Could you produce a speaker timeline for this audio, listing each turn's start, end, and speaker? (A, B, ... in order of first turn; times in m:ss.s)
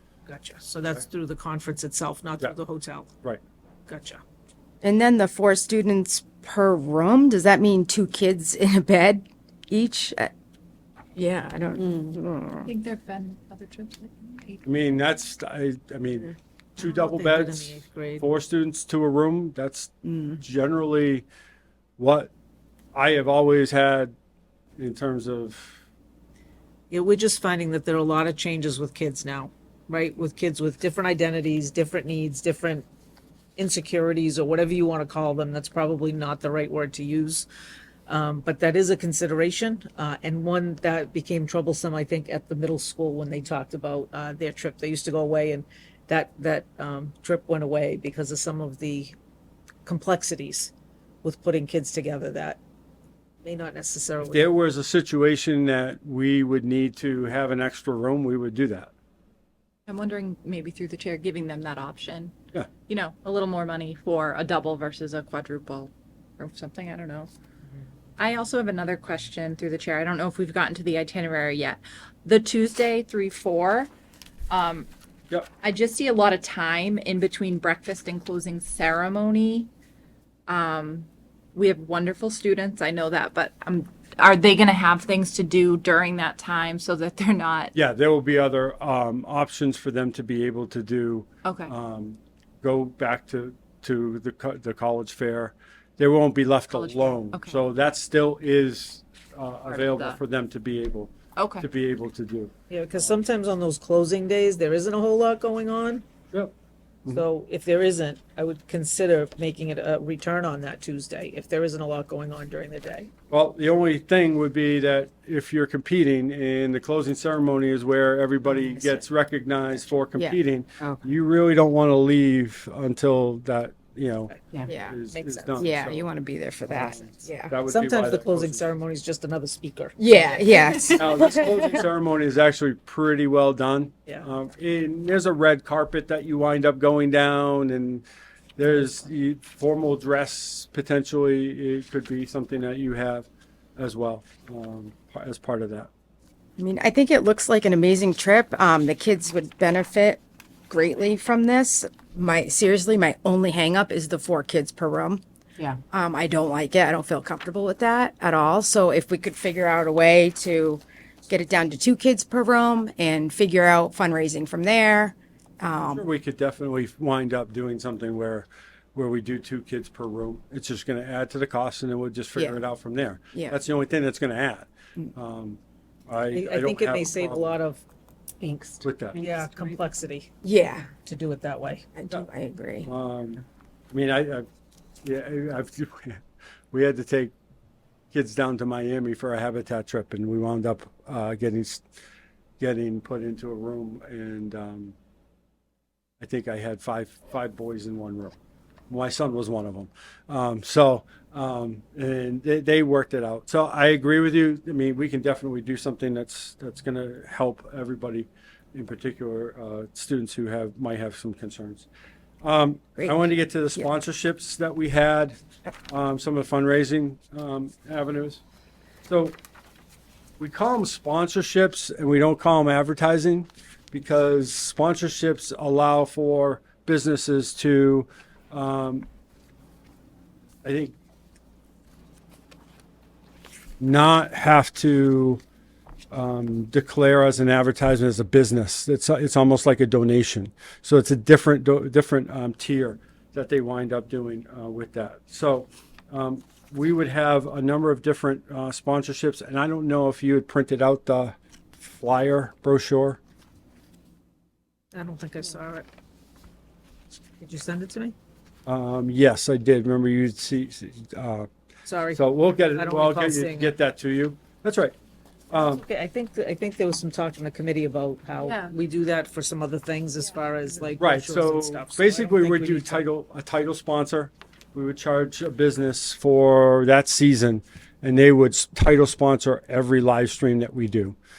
0:00.2-0:03.1 A
0:03.9-0:04.2 A
0:04.8-0:10.3 B
0:11.1-0:12.7 B
0:12.6-0:14.6 C
0:14.6-0:21.2 D
0:16.8-0:18.3 A
0:20.0-0:20.4 B
0:22.0-0:22.3 D
0:22.9-0:24.1 D
0:24.8-0:25.8 D
0:26.9-0:32.8 A
0:33.6-0:37.5 A
0:38.1-0:49.1 A
0:49.8-0:50.7 A
0:51.2-0:52.6 A
0:53.4-0:54.5 A
0:54.2-0:58.9 D
0:59.9-1:02.3 C
1:02.9-1:07.3 C
1:08.2-1:13.9 C
1:14.5-1:14.9 C
1:15.6-1:19.7 C
1:20.5-1:27.7 C
1:27.7-1:43.2 D
1:31.4-1:31.7 C
1:36.7-1:37.6 C
1:39.6-1:40.2 C
1:41.4-1:41.6 C
1:42.7-1:46.0 A
1:47.1-1:53.1 A
1:53.3-2:06.0 D
1:58.6-1:59.0 B
1:59.9-2:01.0 B
2:04.3-2:06.0 A
2:04.6-2:05.0 B
2:05.6-2:07.6 B
2:06.7-2:08.6 D
2:07.6-2:10.5 A
2:10.0-2:11.8 B
2:10.9-2:18.0 D
2:18.6-2:25.9 D
2:26.6-2:35.2 B
2:35.9-2:46.1 B
2:45.8-2:57.6 D
2:52.4-2:52.6 B
2:56.3-2:57.8 A
2:58.4-3:00.3 A
2:58.8-2:59.2 D
3:00.4-3:00.9 B
3:01.0-3:01.8 A
3:01.9-3:02.9 B
3:02.8-3:04.5 D
3:05.0-3:06.2 D
3:06.7-3:07.3 D
3:08.1-3:11.8 D
3:12.6-3:15.0 D
3:16.2-3:18.4 D
3:18.9-3:31.9 D
3:32.4-3:38.4 D
3:33.0-3:33.2 B
3:39.1-3:39.4 D
3:40.4-3:49.0 D
3:50.6-3:51.0 D
3:53.8-3:55.4 D
3:56.1-4:13.2 D
4:14.9-4:15.9 A
4:17.4-4:18.1 A
4:18.6-4:21.5 D
4:21.8-4:23.8 A
4:22.1-4:25.0 D
4:25.5-4:25.8 D
4:25.5-4:33.1 A
4:28.4-4:28.7 C
4:31.0-4:41.2 D